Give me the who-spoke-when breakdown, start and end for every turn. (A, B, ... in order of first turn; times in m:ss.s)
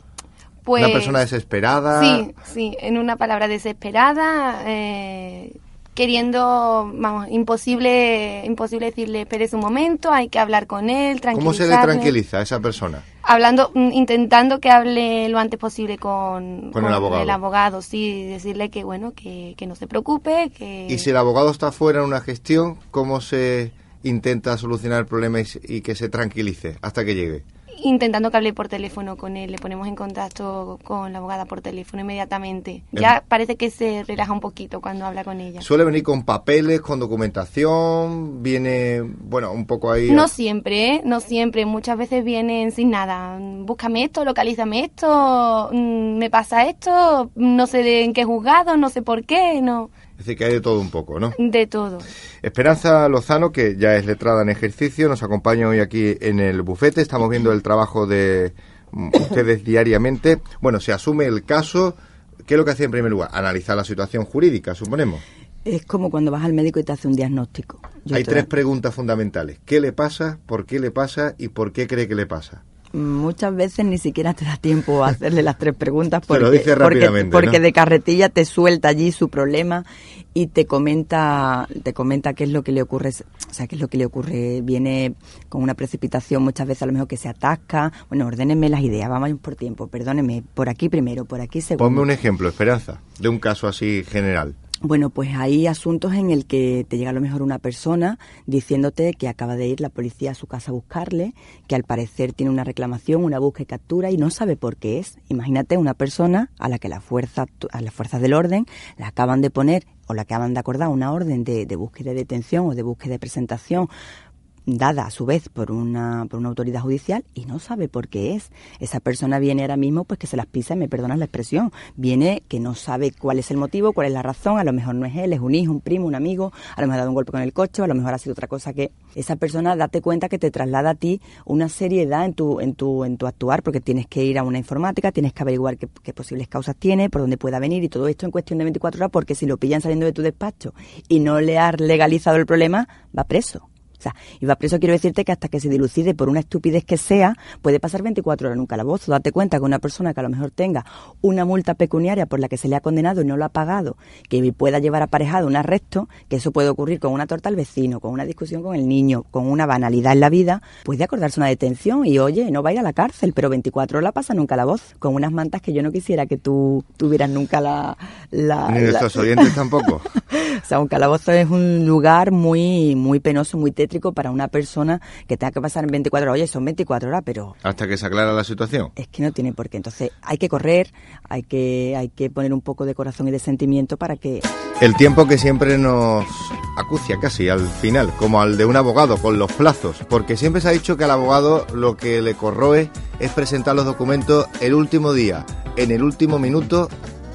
0:00.7-0:01.2 A
0:00.8-0:02.3 B
0:02.0-0:12.1 A
0:11.3-0:13.0 B
0:13.3-0:21.0 A
0:16.7-0:17.4 B
0:20.9-0:27.4 B
0:27.8-0:35.6 A
0:35.6-0:40.3 B
0:40.1-0:49.9 A
0:50.2-0:51.3 B
0:51.4-0:52.0 A
0:52.4-1:02.0 B
1:02.5-1:05.2 B
1:05.6-1:08.5 C
1:08.1-1:12.6 B
1:12.9-1:32.1 C
1:16.3-1:17.6 B
1:31.8-1:34.6 B
1:34.8-1:53.9 C
1:54.7-2:49.6 C
2:48.7-2:50.1 B
2:50.3-2:57.6 C
2:57.6-2:58.9 B
2:59.0-3:04.5 C
3:04.8-3:16.9 B